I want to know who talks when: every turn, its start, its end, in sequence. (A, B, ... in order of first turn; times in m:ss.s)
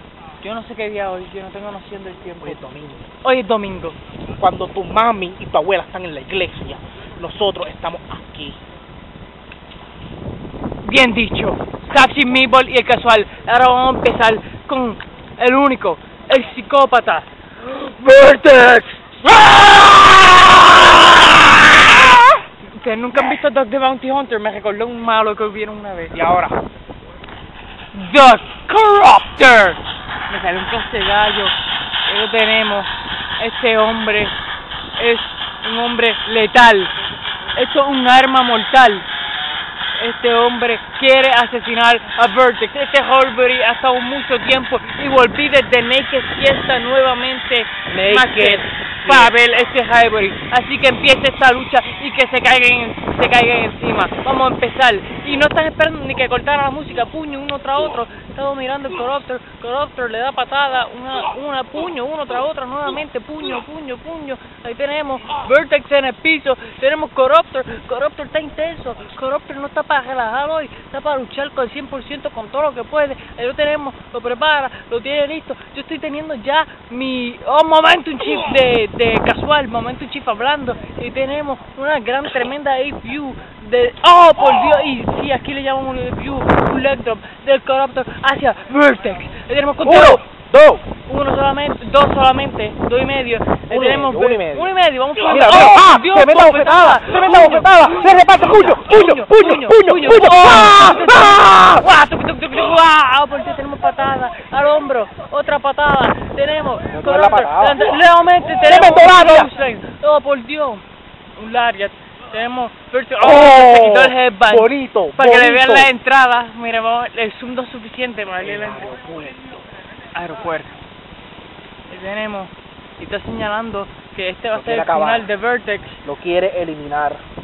0:00.4-0:02.6 A
0:02.4-0:03.1 B
0:03.2-0:04.0 A
0:04.4-0:08.6 B
0:10.8-0:26.1 A
0:26.1-0:26.6 B
0:27.9-0:34.3 A
0:35.0-0:36.9 A
0:37.6-0:39.1 A
0:40.0-1:30.2 A
0:47.9-0:49.4 B
1:29.8-1:30.8 B
1:31.1-1:50.8 A
1:33.7-1:34.7 B
1:35.3-1:41.9 B
1:46.9-1:47.9 B
1:48.6-1:49.5 B
1:51.4-1:58.9 A
1:53.2-1:55.9 B
1:58.4-1:59.4 B
2:00.1-2:00.8 A
2:01.9-2:06.0 A
2:04.5-2:05.3 B
2:06.0-2:07.2 B